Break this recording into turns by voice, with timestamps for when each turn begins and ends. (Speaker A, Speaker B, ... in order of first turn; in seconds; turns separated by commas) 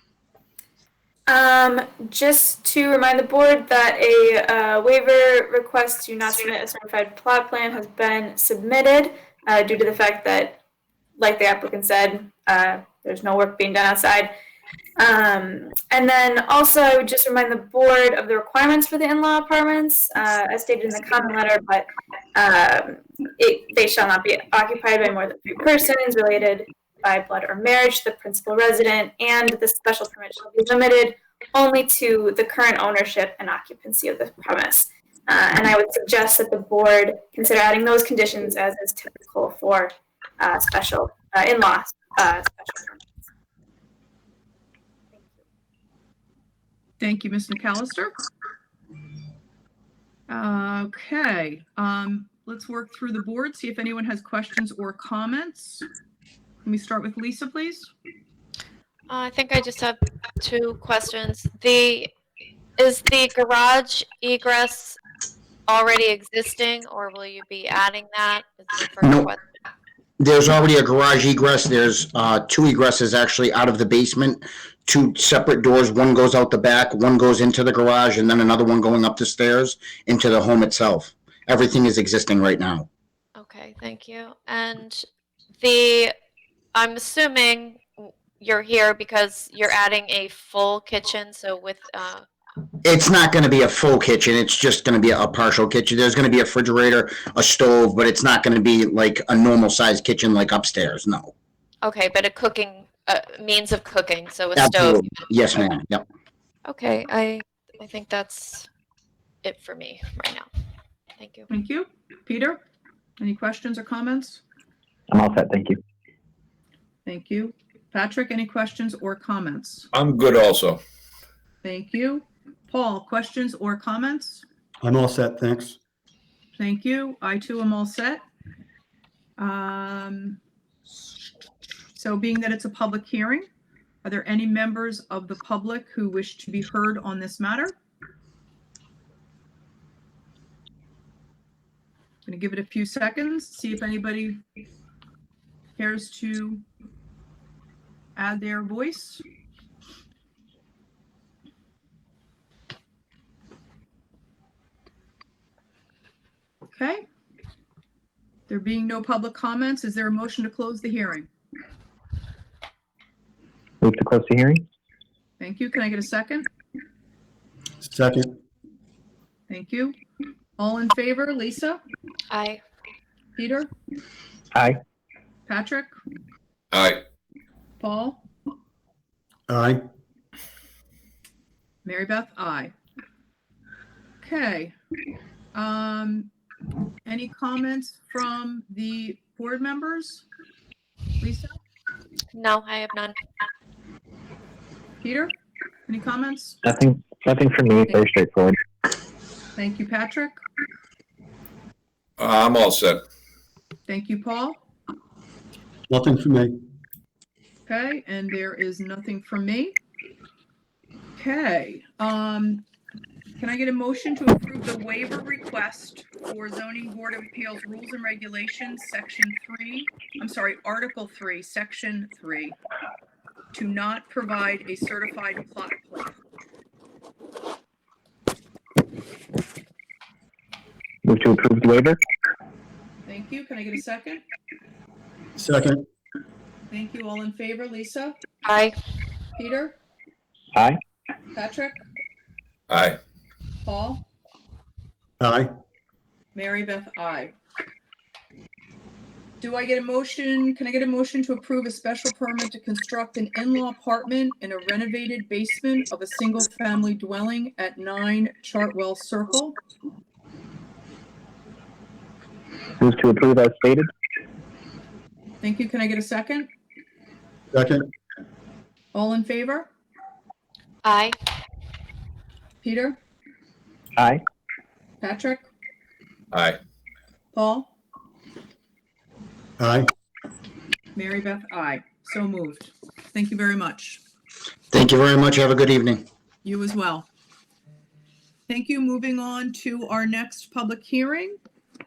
Speaker A: 1.3-10.6, Speaker A: 11.2-14.3, Speaker A: 15.0-43.0, Speaker B: 47.0-48.1, Speaker B: 50.3-55.9, Speaker B: 56.6-57.9, Speaker C: 59.1-62.1, Speaker C: 62.8-65.0, Speaker C: 65.7-69.4, Speaker D: 69.0-69.3, Speaker D: 70.2-82.9, Speaker C: 83.4-85.1, Speaker C: 85.6-86.1, Speaker C: 86.8-92.3, Speaker D: 92.8-101.3, Speaker C: 101.8-105.3, Speaker D: 104.6-106.0, Speaker C: 106.7-108.7, Speaker C: 109.4-110.5, Speaker C: 111.2-111.5, Speaker B: 111.5-112.6, Speaker B: 113.2-114.4, Speaker E: 115.1-115.8, Speaker B: 117.1-119.9, Speaker F: 119.9-120.8, Speaker B: 121.6-124.4, Speaker G: 124.8-125.8, Speaker B: 126.6-128.2, Speaker B: 129.4-130.4, Speaker B: 131.9-133.5, Speaker B: 134.0-137.8, Speaker B: 142.3-144.4, Speaker B: 145.8-146.6, Speaker B: 148.2-149.2, Speaker B: 156.7-157.1, Speaker B: 158.5-161.3, Speaker E: 163.8-164.6, Speaker B: 165.4-166.5, Speaker G: 167.8-168.4, Speaker B: 169.5-169.9, Speaker B: 170.6-171.8, Speaker C: 172.3-172.6, Speaker B: 173.4-173.7, Speaker E: 174.5-174.8, Speaker B: 175.5-176.0, Speaker F: 176.7-177.0, Speaker B: 177.8-178.2, Speaker G: 179.5-179.8, Speaker B: 181.8-182.7, Speaker B: 184.2-184.7, Speaker B: 185.5-186.3, Speaker B: 187.1-190.2, Speaker B: 191.2-191.6, Speaker C: 192.3-193.2, Speaker B: 195.0-195.3, Speaker B: 195.9-196.6, Speaker E: 196.6-198.6, Speaker B: 199.6-200.4, Speaker F: 202.2-203.0, Speaker B: 203.9-204.6, Speaker G: 205.9-206.6, Speaker B: 207.7-209.8, Speaker B: 211.2-212.7, Speaker B: 213.4-222.6, Speaker B: 223.5-226.2, Speaker E: 231.1-232.0, Speaker B: 233.1-234.2, Speaker G: 235.4-235.9, Speaker B: 236.7-238.2, Speaker C: 238.4-238.7, Speaker B: 239.4-239.8, Speaker E: 240.5-240.8, Speaker B: 241.3-241.8, Speaker F: 242.7-243.0, Speaker B: 243.6-244.1, Speaker G: 245.2-245.5, Speaker B: 246.3-247.3, Speaker B: 249.4-259.6, Speaker E: 262.8-263.9, Speaker B: 265.4-266.5, Speaker G: 267.5-267.8, Speaker B: 268.9-269.7, Speaker C: 270.8-271.2, Speaker B: 272.6-273.0, Speaker E: 274.0-274.2, Speaker B: 275.0-275.5, Speaker F: 276.3-276.6, Speaker B: 277.3-277.7, Speaker G: 279.6-279.9, Speaker B: 281.0-284.0, Speaker D: 284.7-286.1, Speaker B: 286.4-287.1, Speaker B: 288.5-291.4